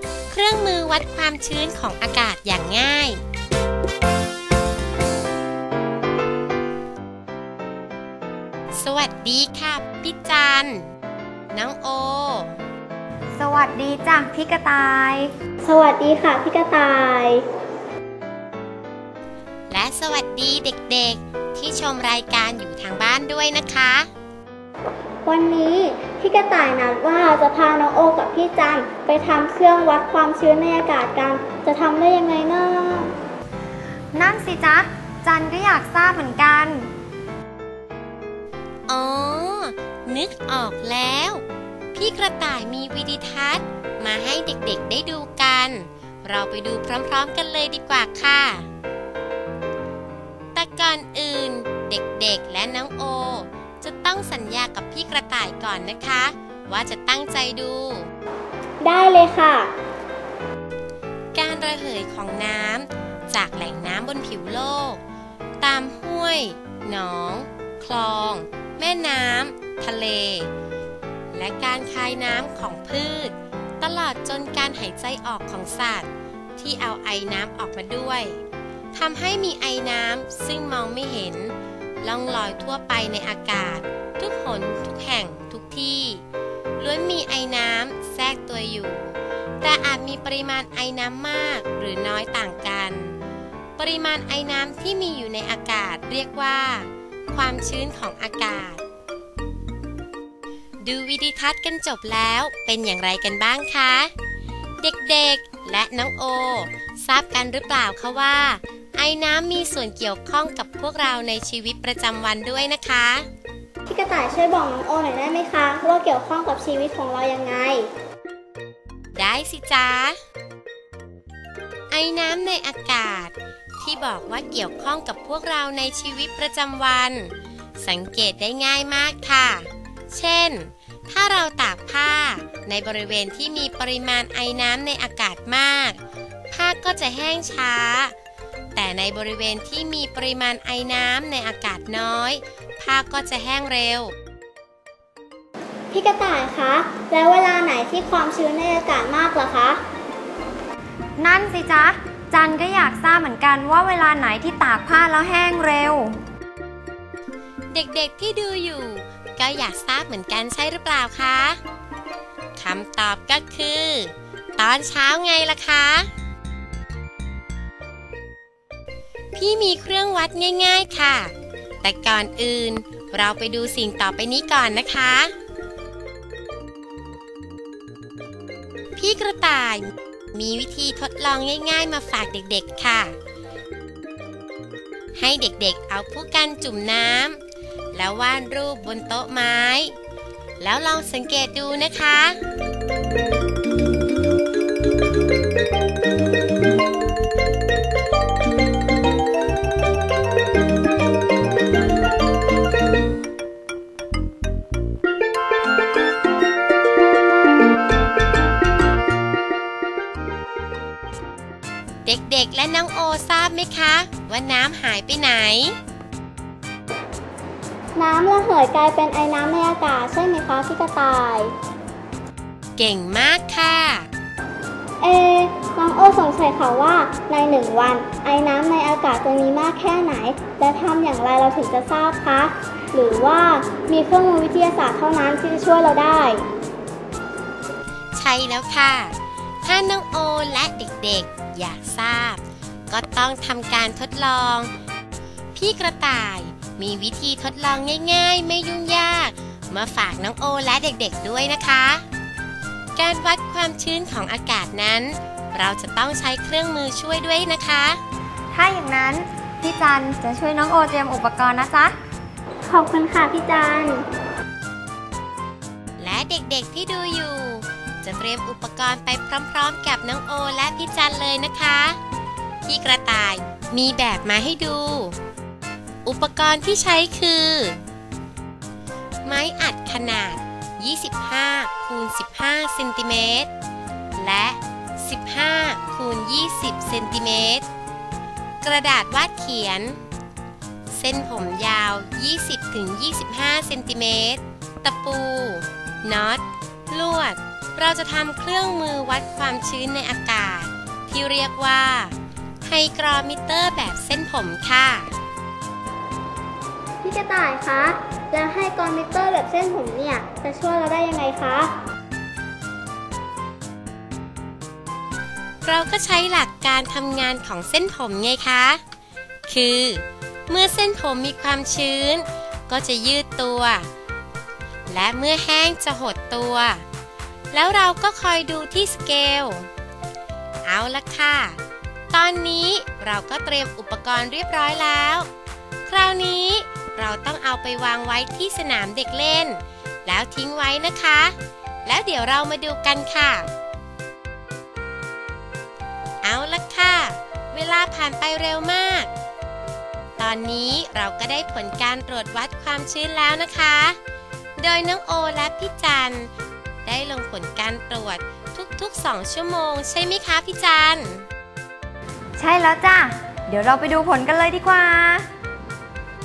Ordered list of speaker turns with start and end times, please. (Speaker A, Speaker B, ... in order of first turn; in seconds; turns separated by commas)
Speaker A: 0.3-3.2, Speaker A: 8.8-10.9, Speaker A: 11.5-12.6, Speaker B: 13.4-15.3, Speaker C: 15.6-17.4, Speaker A: 19.7-24.1, Speaker C: 25.2-33.1, Speaker B: 34.1-36.9, Speaker A: 38.9-41.4, Speaker A: 41.9-48.7, Speaker A: 50.5-58.1, Speaker C: 58.8-59.7, Speaker A: 61.4-65.0, Speaker A: 65.6-70.5, Speaker A: 71.3-78.4, Speaker A: 78.9-86.2, Speaker A: 86.8-93.2, Speaker A: 93.8-98.8, Speaker A: 100.8-104.1, Speaker A: 104.8-113.3, Speaker C: 113.9-117.9, Speaker A: 119.2-120.2, Speaker A: 121.9-136.0, Speaker A: 136.5-138.1, Speaker A: 138.8-144.1, Speaker C: 145.9-149.8, Speaker B: 151.2-156.2, Speaker A: 157.7-161.6, Speaker A: 162.6-166.1, Speaker A: 169.3-175.3, Speaker A: 179.0-183.2, Speaker A: 185.2-187.4, Speaker A: 187.9-189.9, Speaker A: 190.6-192.4, Speaker A: 212.1-215.8, Speaker C: 218.0-221.5, Speaker A: 222.8-224.1, Speaker C: 225.0-236.4, Speaker A: 238.2-244.7, Speaker A: 245.6-252.0, Speaker A: 253.0-258.0, Speaker B: 258.5-261.9, Speaker C: 262.7-264.0, Speaker A: 266.0-272.0, Speaker A: 272.7-275.2, Speaker A: 276.1-277.8, Speaker A: 279.2-283.5, Speaker A: 284.2-287.7, Speaker A: 288.6-290.0, Speaker A: 290.9-305.1, Speaker C: 307.0-311.7, Speaker A: 315.6-318.8, Speaker A: 319.5-323.9, Speaker A: 324.9-326.8, Speaker A: 327.5-329.7, Speaker A: 330.6-331.6, Speaker A: 332.1-335.3, Speaker A: 335.9-341.4, Speaker A: 341.9-343.5, Speaker A: 346.2-349.1, Speaker A: 350.2-354.0, Speaker A: 354.6-356.3, Speaker A: 356.9-361.3, Speaker B: 362.4-365.3